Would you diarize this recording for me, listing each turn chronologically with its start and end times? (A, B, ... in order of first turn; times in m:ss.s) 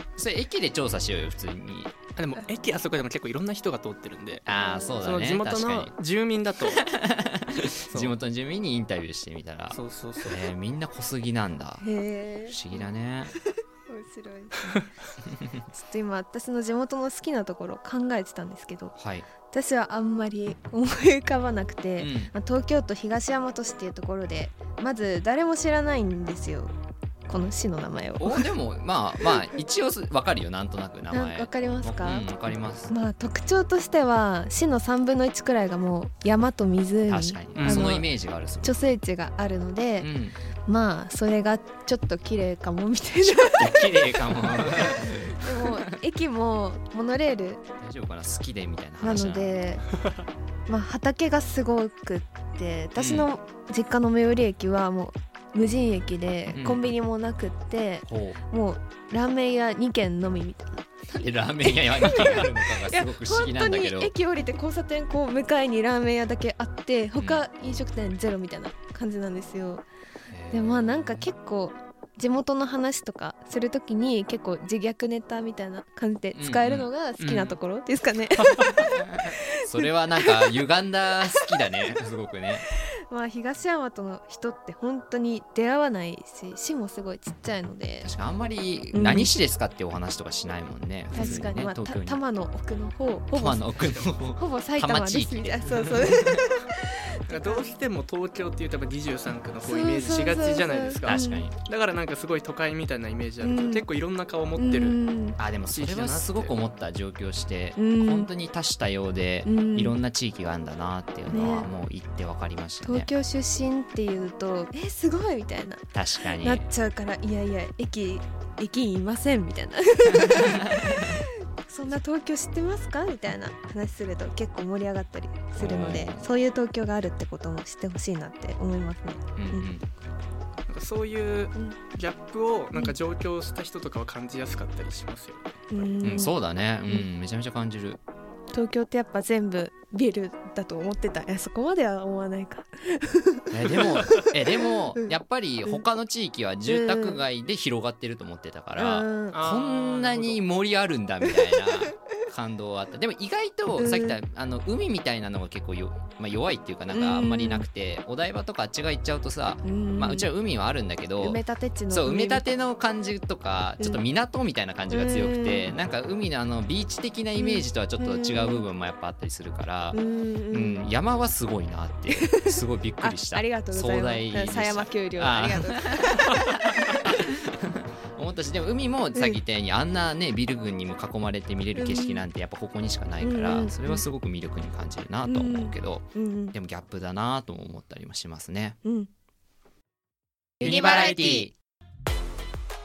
0:00.2-0:01.9 A
0:02.2-0:04.5 B
0:04.5-0:05.9 A
0:04.5-0:05.1 C
0:05.0-0:06.9 B
0:06.8-0:11.9 A
0:07.9-0:08.2 B
0:09.7-0:10.4 B
0:11.8-0:12.9 C
0:12.5-0:13.4 A
0:13.4-0:14.9 C
0:15.7-0:26.7 C
0:19.0-0:19.3 A
0:22.0-0:22.3 A
0:27.3-0:28.5 C
0:28.2-0:33.0 A
0:31.1-0:32.3 C
0:32.9-0:40.1 C
0:37.1-0:38.8 A
0:37.6-0:38.0 B
0:40.0-0:40.4 A
0:40.7-0:47.6 C
0:43.2-0:45.7 A
0:47.8-0:49.6 A
0:49.0-0:49.8 C
0:50.7-1:00.8 C
0:53.0-0:53.3 A
0:56.5-0:56.9 A
0:58.1-0:58.4 A
1:01.1-1:04.1 A
1:02.0-1:09.8 C
1:07.2-1:07.5 A
1:10.3-1:11.3 A
1:10.5-1:20.5 C
1:16.4-1:16.9 A
1:17.2-1:17.6 B
1:18.4-1:18.8 B
1:18.8-1:22.6 A
1:23.1-1:28.1 C
1:28.0-1:32.2 A
1:28.9-1:29.3 C
1:31.1-1:31.5 B
1:31.1-1:33.7 C
1:33.3-1:36.4 A
1:33.8-1:34.0 B
1:34.3-1:37.7 C
1:37.3-1:45.0 B
1:39.6-1:41.5 C
1:41.1-1:41.6 A
1:43.4-1:43.8 C
1:44.6-1:45.4 C
1:45.4-1:53.1 A
1:45.7-1:46.5 B
1:47.8-1:48.3 C
1:49.4-1:50.0 C
1:51.3-1:51.7 C
1:52.8-2:09.7 C
1:55.9-1:56.7 A
2:00.2-2:01.2 A
2:05.6-2:06.3 A
2:09.4-2:09.8 A
2:10.7-2:15.9 B
2:15.7-2:17.1 C
2:16.0-2:18.0 A
2:18.5-2:24.3 C
2:23.5-2:41.4 A
2:26.7-2:27.2 C
2:28.8-2:29.4 C
2:29.3-2:30.4 B
2:31.2-2:31.7 C
2:33.7-2:34.2 C
2:36.9-2:37.7 C
2:39.6-2:40.3 C
2:41.2-2:42.5 C
2:41.9-2:50.0 A
2:44.9-2:45.7 C
2:47.4-2:48.7 C
2:49.9-2:50.9 C
2:50.5-2:57.2 A
2:52.1-2:56.5 C
2:57.8-3:08.8 A
2:59.1-2:59.4 C
3:01.8-3:02.3 C
3:03.2-3:04.0 C
3:05.2-3:06.6 C
3:08.8-3:09.1 C
3:10.6-3:11.4 C
3:10.6-3:11.5 B
3:10.6-3:11.5 A